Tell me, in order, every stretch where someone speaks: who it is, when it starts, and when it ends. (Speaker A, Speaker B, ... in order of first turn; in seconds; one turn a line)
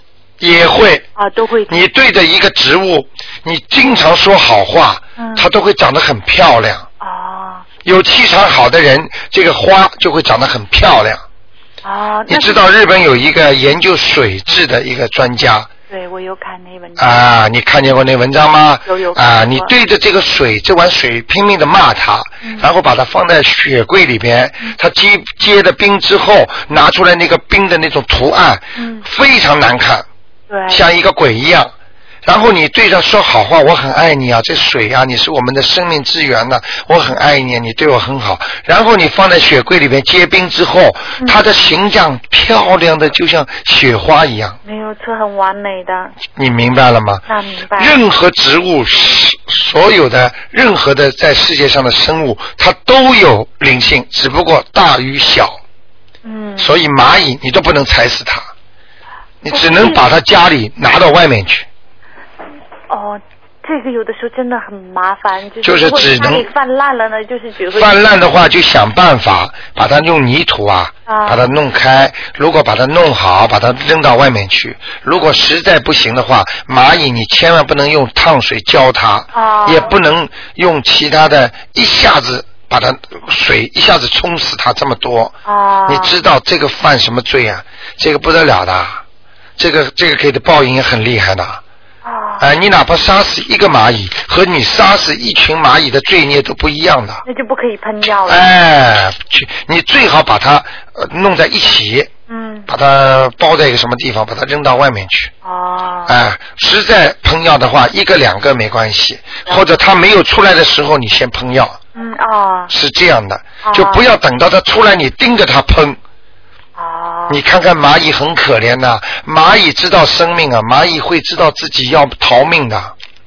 Speaker A: 0.4-1.1
Speaker B: 1.1-1.8
Speaker A: 1.7-6.9
Speaker B: 5.2-5.5
Speaker B: 7.0-7.7
Speaker A: 7.8-11.2
Speaker B: 11.8-12.6
Speaker A: 12.3-15.7
Speaker B: 15.9-17.3
Speaker A: 17.0-30.1
Speaker B: 18.9-19.7
Speaker B: 28.8-29.0
Speaker B: 30.5-30.8
Speaker A: 30.7-31.7
Speaker A: 32.2-44.6
Speaker B: 44.6-46.1
Speaker A: 46.4-47.2
Speaker B: 47.3-47.9
Speaker A: 47.8-55.6
Speaker B: 56.2-56.7
Speaker A: 56.6-58.5
Speaker A: 59.4-61.7
Speaker B: 59.5-60.0
Speaker B: 62.9-68.0
Speaker A: 65.6-66.5
Speaker A: 67.8-89.0
Speaker B: 71.1-71.4
Speaker B: 79.3-79.9
Speaker B: 85.5-86.1
Speaker A: 89.6-91.6
Speaker B: 92.0-92.5
Speaker A: 92.4-97.2
Speaker B: 97.2-98.5
Speaker A: 98.3-102.1
Speaker B: 102.3-102.7
Speaker A: 102.7-105.3
Speaker B: 105.4-106.2
Speaker A: 106.1-111.8
Speaker B: 111.9-112.7
Speaker A: 112.7-116.0
Speaker B: 113.6-114.0
Speaker B: 116.8-117.4
Speaker A: 117.3-122.9